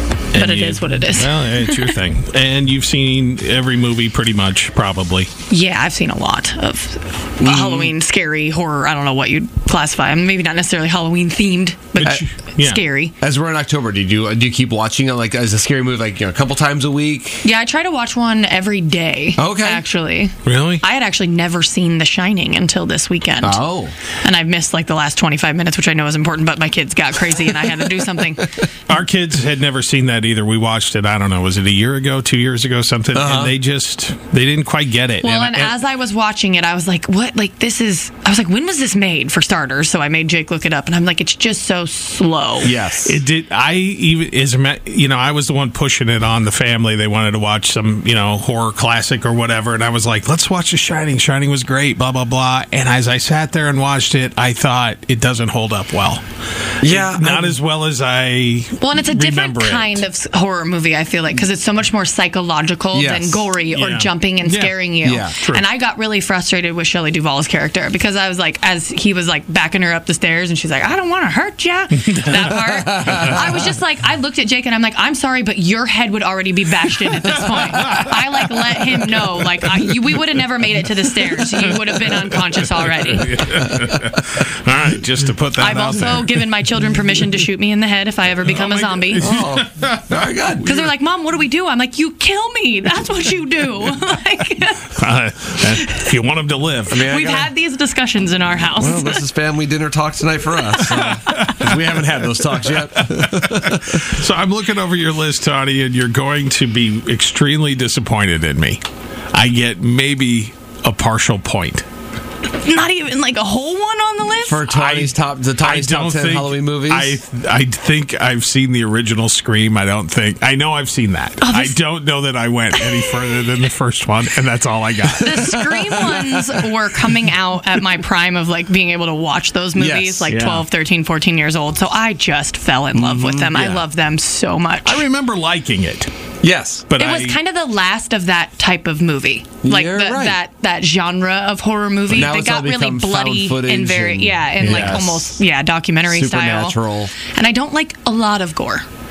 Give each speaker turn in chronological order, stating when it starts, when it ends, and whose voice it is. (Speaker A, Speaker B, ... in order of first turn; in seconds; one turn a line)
Speaker A: 0.3-1.9
Speaker B: 0.3-5.3
Speaker A: 5.5-13.1
Speaker C: 7.4-7.9
Speaker B: 11.9-12.8
Speaker C: 13.2-17.4
Speaker A: 17.4-23.6
Speaker C: 19.4-19.8
Speaker B: 20.4-20.8
Speaker C: 23.4-23.9
Speaker A: 24.2-28.5
Speaker B: 28.9-35.7
Speaker C: 33.1-33.5
Speaker A: 35.2-42.7
Speaker C: 42.6-43.2
Speaker B: 43.0-56.2
Speaker C: 56.8-57.6
Speaker B: 56.8-60.0
Speaker A: 58.8-83.4
Speaker C: 62.9-63.5
Speaker B: 63.7-64.7
Speaker C: 65.0-65.3
Speaker B: 65.4-65.6
Speaker C: 72.8-73.4
Speaker B: 82.8-86.4
Speaker A: 85.6-89.3
Speaker B: 88.5-90.0
Speaker C: 89.2-90.7
Speaker A: 90.6-95.0
Speaker B: 95.0-97.0
Speaker A: 95.8-96.0
Speaker C: 96.9-97.5
Speaker A: 96.9-99.2
Speaker C: 98.8-103.9
Speaker B: 100.9-101.8
Speaker B: 103.1-108.8
Speaker B: 109.3-111.8
Speaker A: 112.5-114.8
Speaker C: 114.4-117.2
Speaker B: 114.7-126.3
Speaker A: 121.4-121.8
Speaker A: 125.2-135.1
Speaker C: 129.7-130.3
Speaker B: 130.3-130.7
Speaker C: 132.9-133.8
Speaker B: 134.8-136.1
Speaker C: 136.4-136.8
Speaker B: 136.9-137.4
Speaker A: 136.9-148.8
Speaker C: 139.6-140.4
Speaker C: 142.1-145.3
Speaker B: 144.6-145.0
Speaker C: 146.1-147.1